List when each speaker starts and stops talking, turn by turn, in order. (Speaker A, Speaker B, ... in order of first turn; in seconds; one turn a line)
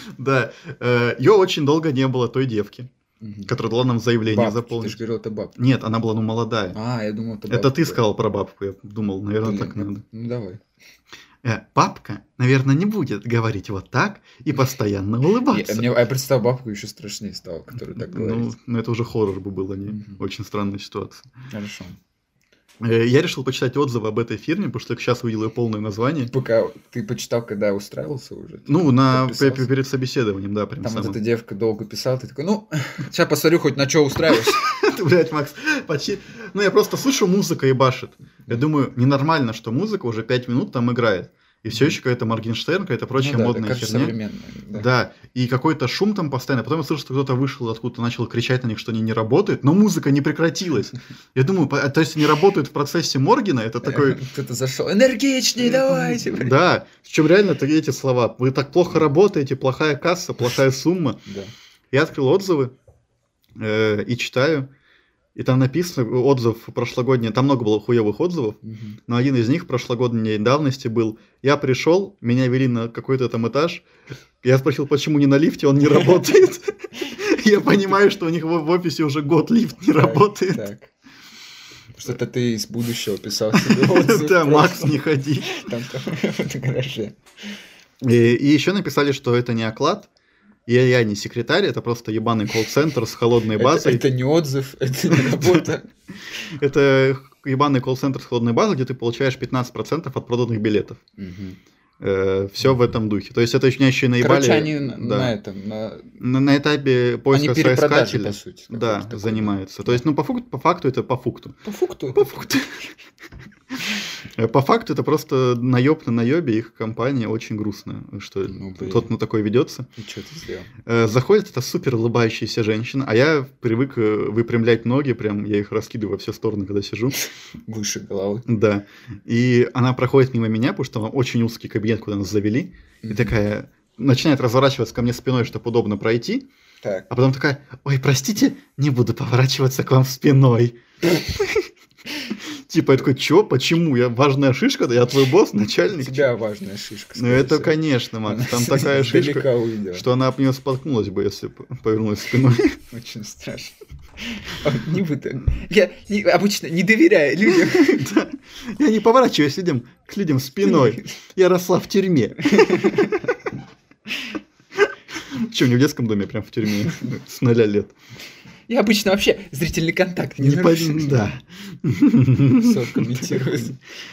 Speaker A: 0.2-2.9
Speaker B: 3.2-3.5
Speaker A: 3.5-5.0
Speaker B: 4.3-5.6
Speaker A: 5.6-6.8
Speaker B: 6.7-8.0
Speaker A: 7.5-10.0
Speaker B: 9.4-10.6
Speaker A: 11.4-15.9
Speaker B: 15.5-18.5
Speaker A: 17.9-21.3
Speaker B: 19.9-20.2
Speaker B: 21.5-22.0
Speaker A: 22.8-26.3
Speaker B: 26.3-29.7
Speaker A: 28.7-31.2
Speaker B: 30.8-34.6
Speaker A: 34.5-44.2
Speaker B: 43.1-44.9
Speaker A: 44.7-54.2
Speaker B: 53.8-56.6
Speaker A: 55.6-61.2
Speaker B: 61.3-61.5
Speaker A: 61.9-62.7
Speaker A: 63.6-64.7
Speaker A: 65.3-73.8
Speaker B: 68.6-69.0
Speaker A: 74.4-80.6
Speaker B: 80.0-80.9
Speaker B: 82.0-87.2
Speaker A: 83.5-85.6
Speaker A: 88.0-90.1
Speaker A: 90.7-94.0
Speaker B: 93.5-95.9
Speaker A: 95.1-95.7
Speaker A: 96.5-101.0
Speaker B: 101.2-101.6
Speaker A: 102.0-105.3
Speaker B: 104.2-106.1
Speaker A: 106.2-111.6
Speaker B: 107.3-110.0
Speaker B: 111.6-112.5
Speaker A: 112.2-112.8
Speaker A: 114.4-119.9
Speaker B: 118.5-119.1
Speaker B: 120.0-120.7
Speaker A: 120.9-127.2
Speaker B: 127.7-128.5
Speaker A: 128.5-136.5
Speaker B: 133.0-133.3
Speaker B: 136.8-137.1
Speaker A: 137.1-141.7
Speaker A: 142.7-146.3
Speaker B: 146.0-150.1
Speaker A: 147.2-152.8
Speaker B: 152.9-158.1
Speaker A: 157.6-163.2
Speaker B: 160.7-161.1
Speaker B: 162.5-163.2
Speaker A: 165.3-167.9
Speaker B: 168.7-171.3
Speaker A: 170.4-173.7
Speaker B: 172.6-173.8